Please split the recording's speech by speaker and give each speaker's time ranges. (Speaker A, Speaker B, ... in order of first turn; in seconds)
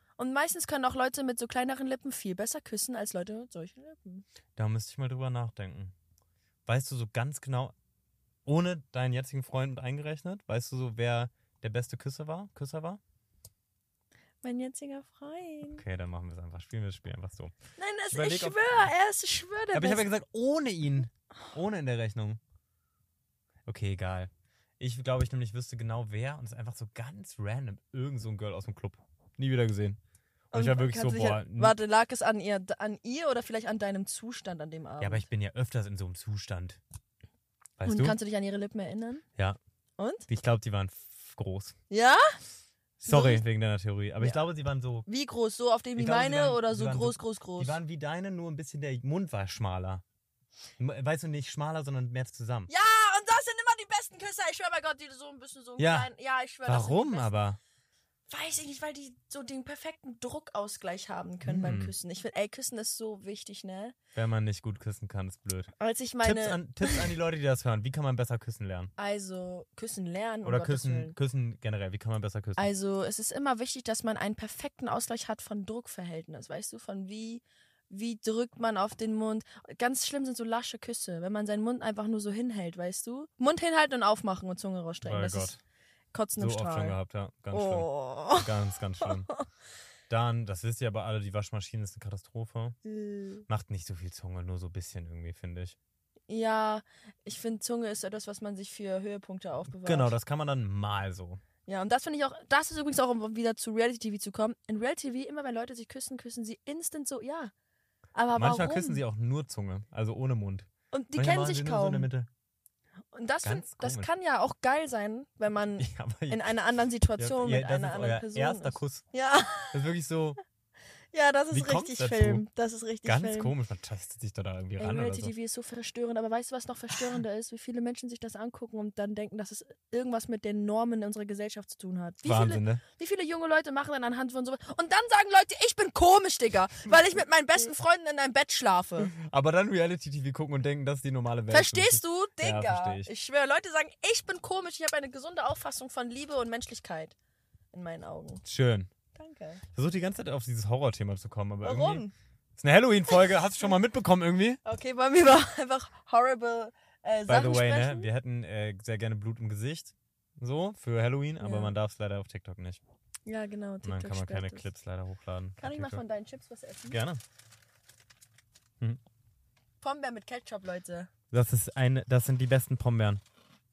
Speaker A: 0.2-4.2, 14.4-15.8, 17.8-20.1, 30.5-35.3, 37.8-39.2, 40.0-40.2, 41.9-42.4, 43.0-43.4, 44.2-44.5, 45.0-47.8, 52.7-57.3, 58.3-63.9, 65.8-67.1, 69.0-71.1, 72.6-85.5, 86.1-87.0, 87.5-89.5, 92.8-93.4, 96.3-100.1, 101.7-107.5, 108.1-109.0, 110.9-112.1, 113.1-119.8, 121.1-123.5, 124.8-139.1, 141.5-147.1, 147.7-148.4, 149.1-149.6, 151.6-152.1, 154.6-158.1, 161.4-161.7, 163.2-164.7, 165.6-167.0, 169.8-171.1
Speaker B: 4.5-5.9, 6.7-7.7, 8.4-13.0, 15.7-17.5, 18.1-18.6, 19.7-22.4, 23.6-30.0, 30.5-31.7, 35.0-36.8, 37.8-38.1, 40.3-41.7, 43.0-45.0, 46.0-50.0, 50.8-52.7, 55.8-56.1, 56.6-57.6, 61.4-61.9, 64.1-68.9, 70.4-72.7, 85.0-85.6, 86.4-89.3, 90.1-92.8, 93.5-95.8, 99.7-101.4, 108.3-112.3, 113.4-114.1, 115.8-116.5, 117.2-119.0, 119.7-120.4, 121.5-122.5, 123.0-125.3, 132.2-132.8, 139.0-143.1, 148.4-148.9, 149.7-152.0, 152.6-154.6, 157.3-162.8, 163.8-166.0, 166.9-167.2, 171.3-173.2